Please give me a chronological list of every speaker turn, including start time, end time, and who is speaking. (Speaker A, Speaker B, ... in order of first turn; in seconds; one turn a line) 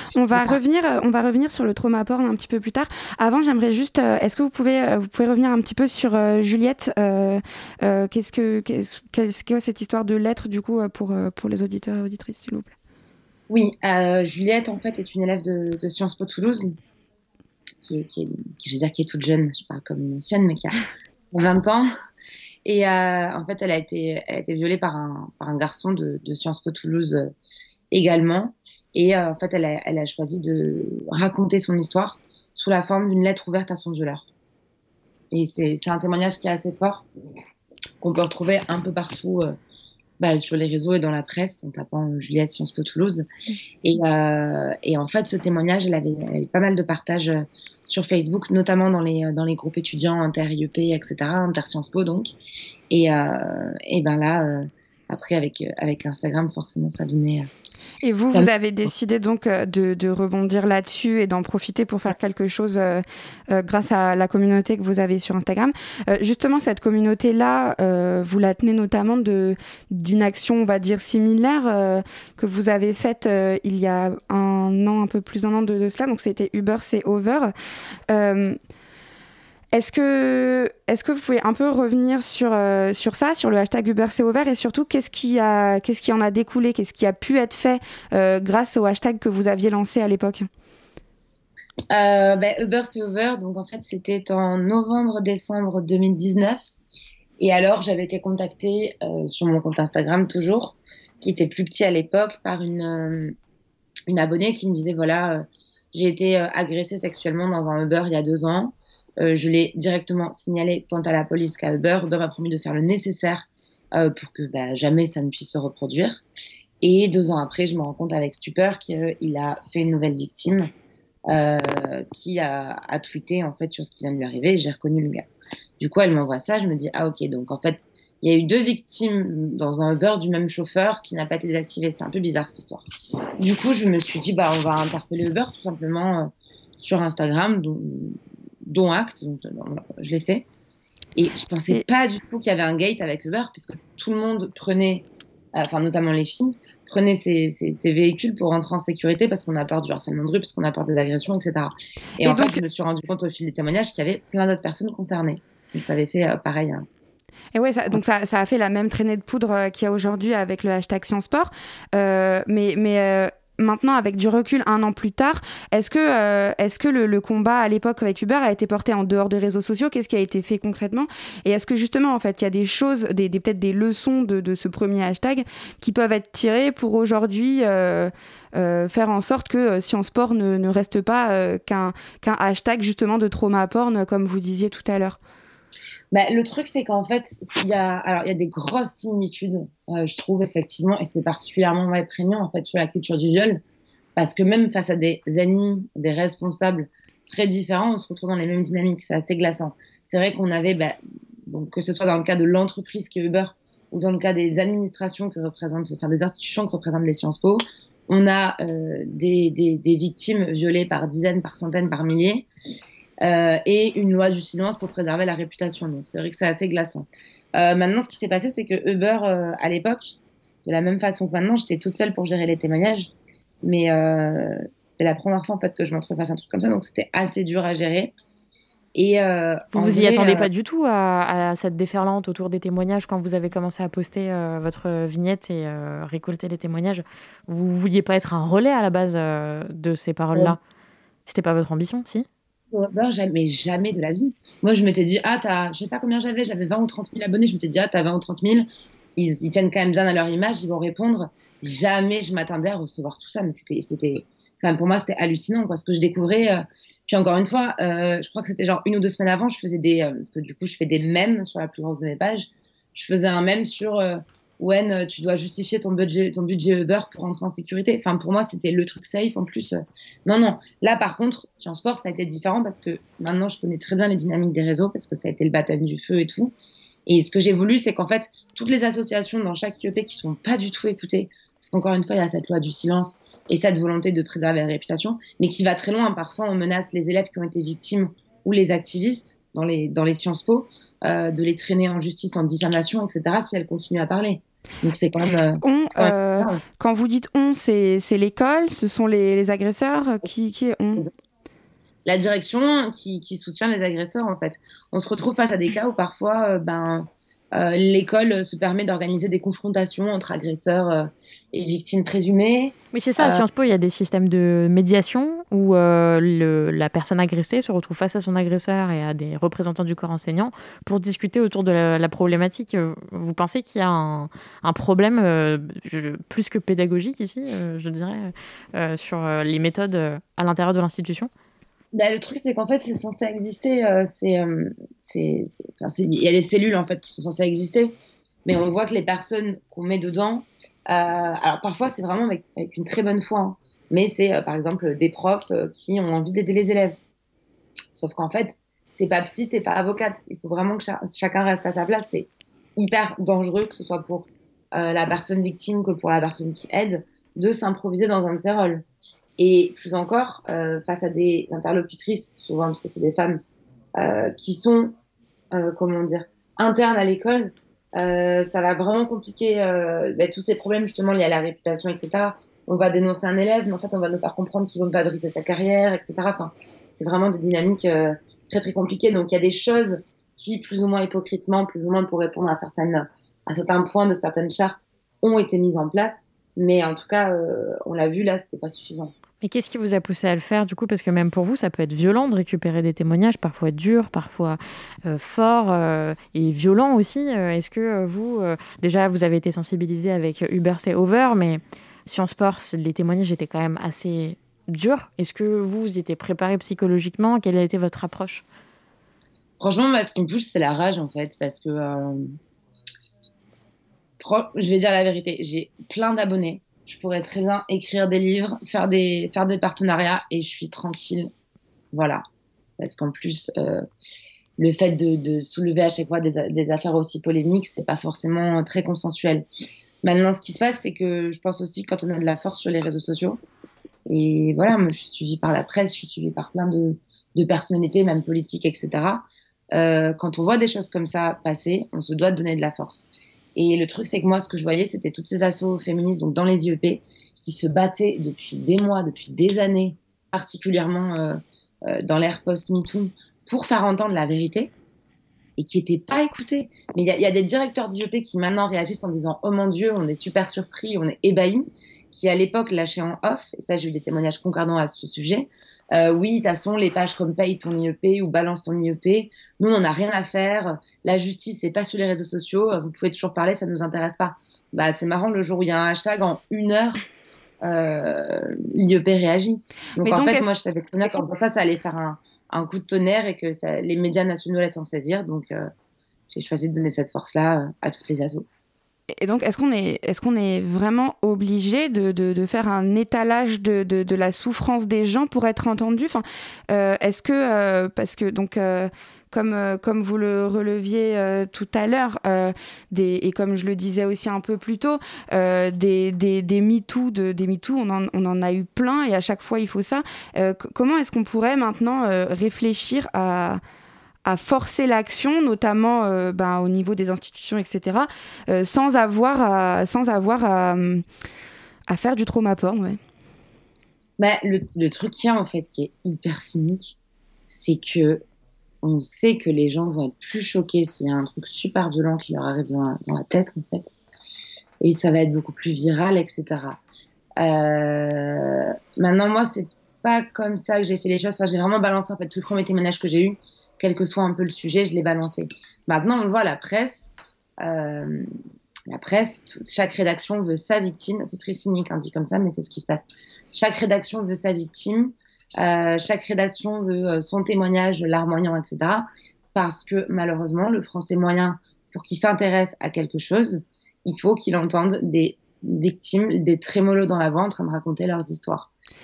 Speaker A: 0.1-12.7
Speaker B: 0.3-0.6
Speaker B: 13.5-16.8
Speaker B: 17.8-20.8
Speaker B: 21.3-21.9
Speaker B: 22.6-27.3
Speaker B: 27.9-34.2
Speaker B: 35.3-37.0
Speaker B: 38.0-39.6
Speaker B: 40.2-43.2
Speaker B: 43.8-52.3
Speaker B: 52.9-57.5
Speaker A: 58.0-77.5
Speaker A: 78.1-78.6
Speaker A: 79.7-90.5
Speaker B: 91.9-96.7
Speaker B: 97.4-103.3
Speaker B: 104.1-116.2
Speaker B: 116.8-120.7
Speaker B: 121.3-125.3
Speaker B: 125.8-132.8
Speaker B: 133.4-140.5
Speaker B: 141.2-156.8
Speaker A: 152.2-152.6
Speaker A: 157.5-185.2
Speaker B: 186.1-193.6
Speaker B: 194.2-212.5
Speaker B: 213.2-228.1
Speaker B: 228.9-230.5
Speaker C: 229.7-240.6
Speaker B: 240.3-240.6
Speaker C: 241.3-242.3
Speaker B: 242.7-276.5
Speaker B: 277.1-296.6
Speaker A: 295.6-301.1
Speaker B: 302.0-313.4
Speaker C: 312.9-331.3
Speaker B: 331.9-347.0
Speaker B: 347.9-358.9
Speaker B: 359.4-363.4
Speaker B: 363.9-365.0
Speaker B: 365.5-389.1
Speaker C: 389.4-408.4
Speaker B: 409.6-412.3
Speaker B: 414.2-421.3
Speaker B: 421.9-422.2
Speaker B: 422.8-423.9
Speaker B: 424.6-429.4
Speaker B: 430.0-433.4
Speaker B: 434.1-454.7
Speaker B: 455.6-477.0
Speaker B: 477.6-485.7
Speaker A: 480.0-480.6
Speaker B: 486.3-488.5
Speaker A: 489.2-513.6
Speaker A: 514.2-521.0
Speaker A: 521.9-523.0
Speaker B: 524.2-527.0
Speaker B: 527.5-528.2
Speaker B: 528.8-534.0
Speaker B: 534.8-536.8
Speaker B: 537.4-548.3
Speaker B: 548.9-568.7